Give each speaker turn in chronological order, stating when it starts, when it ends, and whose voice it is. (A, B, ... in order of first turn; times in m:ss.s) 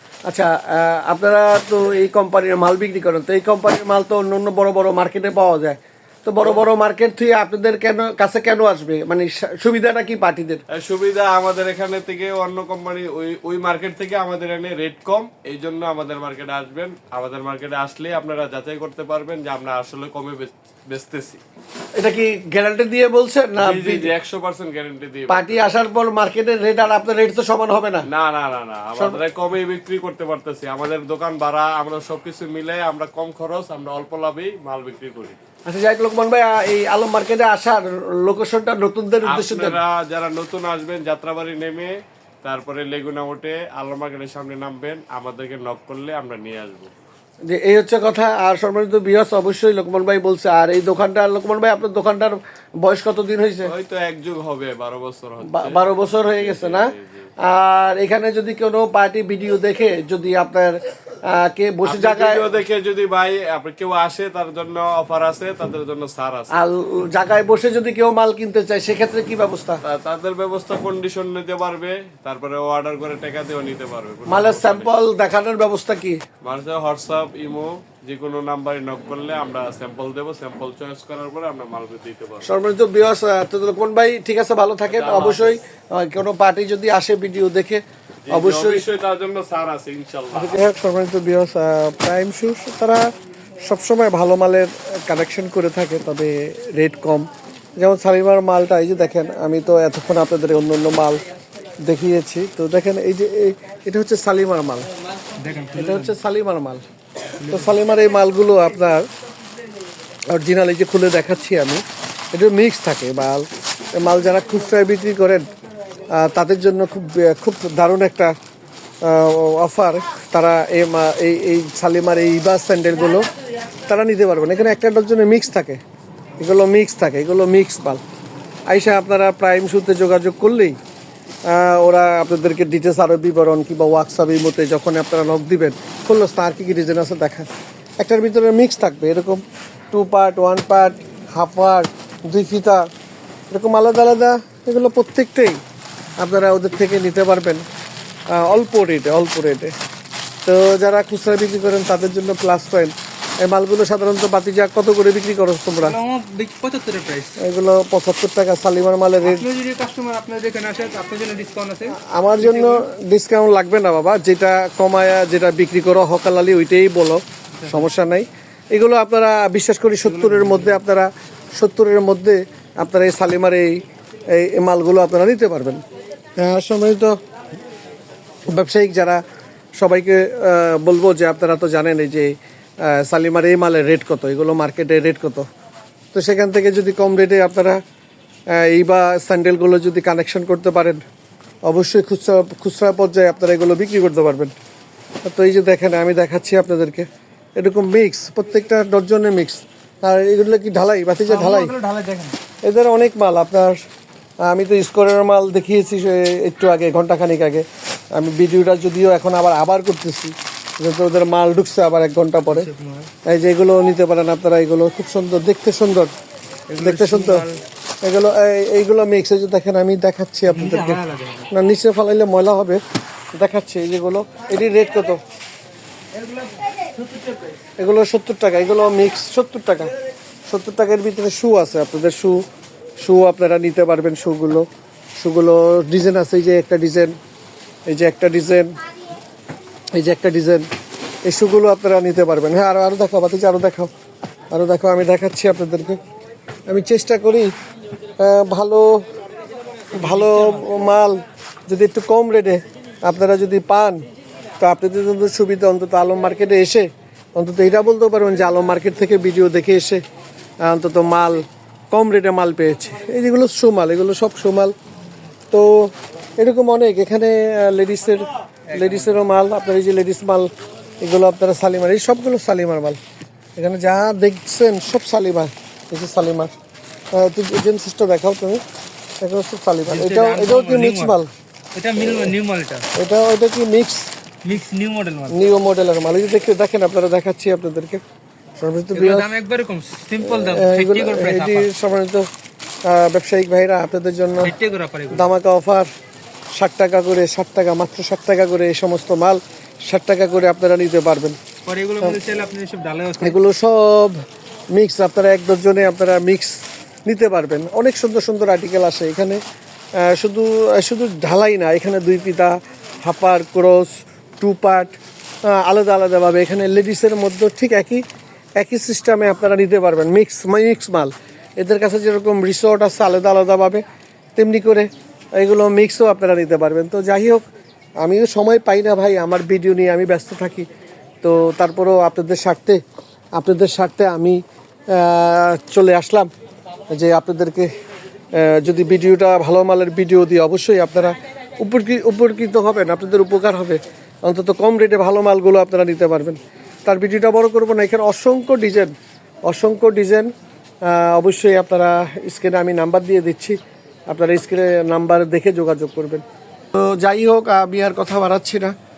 0:00.3-0:10.6 A
0:10.7-0:21.4 B
0:22.0-0:24.1 A
0:23.6-0:25.7 B
0:25.3-0:28.0 A
0:28.1-0:35.4 B
0:35.6-0:39.8 A
0:39.2-0:46.9 B
0:47.5-0:53.7 A
0:53.6-0:57.3 B
0:55.4-1:02.5 A
1:01.8-1:06.6 B
1:06.5-1:09.8 A
1:09.8-1:14.9 B
1:14.3-1:16.2 A
1:16.4-1:22.5 B
1:22.4-1:28.8 A
1:24.9-1:25.6 B
1:28.3-1:30.6 B
1:30.3-1:41.2 A
1:41.8-1:44.9 A
1:45.4-1:46.1 C
1:45.7-1:46.8 A
1:47.4-1:47.7 C
1:47.4-1:49.0 A
1:50.3-1:55.5 A
1:56.1-1:58.3 A
1:59.0-2:03.3 A
2:03.9-2:05.8 A
2:06.4-2:08.0 A
2:08.7-2:10.8 A
2:11.5-2:17.5 A
2:18.0-2:22.9 A
2:23.5-2:25.6 A
2:26.2-2:27.6 A
2:28.3-2:29.7 A
2:30.4-2:36.0 A
2:35.8-2:37.4 C
2:37.4-2:39.4 A
2:39.2-2:42.8 C
2:41.9-2:55.8 A
2:50.0-2:50.8 C
2:56.4-2:57.2 A
2:58.5-2:59.2 A
2:59.8-3:05.4 A
3:06.1-3:07.8 A
3:08.5-3:11.0 A
3:11.7-3:14.5 A
3:15.2-3:17.0 A
3:17.6-3:21.7 A
3:21.3-3:22.4 C
3:22.6-3:23.8 A
3:24.4-3:32.7 A
3:32.5-3:33.1 C
3:33.2-3:36.1 A
3:36.7-3:37.6 C
3:36.8-3:37.4 A
3:38.0-3:42.8 A
3:40.5-3:41.5 C
3:43.3-3:45.2 A
3:46.1-3:47.5 C
3:47.8-3:49.9 A
3:50.5-3:52.4 A
3:53.0-3:54.7 A
3:55.2-3:57.1 A
3:57.9-3:58.7 A
4:00.0-4:00.6 A
4:01.2-4:03.9 A
4:04.5-4:06.0 A
4:06.7-4:07.5 A
4:08.2-4:09.0 A
4:09.9-4:10.7 C
4:09.9-4:14.0 A
4:14.6-4:20.0 A
4:20.6-4:24.7 A
4:25.5-4:33.0 A
4:28.7-4:29.2 C
4:33.6-4:36.5 A
4:37.1-4:38.6 A
4:39.2-4:41.3 A
4:39.9-4:41.2 C
4:41.7-4:42.9 C
4:42.9-4:44.1 A
4:44.4-4:45.4 C
4:45.3-4:48.0 A
4:48.6-4:49.4 A
4:48.9-4:51.7 C
4:50.2-4:52.3 A
4:52.8-4:54.5 A
4:54.4-4:55.3 C
4:55.1-4:55.9 A
4:56.5-5:01.4 A
5:01.6-5:03.4 C
5:03.2-5:04.2 A
5:04.7-5:09.4 A
5:10.0-5:18.0 A
5:18.6-5:23.8 A
5:24.4-5:27.4 A
5:28.0-5:30.7 A
5:31.2-5:32.8 A
5:33.3-5:36.3 A
5:36.9-5:37.7 A
5:38.4-5:48.9 A
5:49.4-5:50.3 A
5:50.8-5:53.6 A
5:54.1-5:58.7 A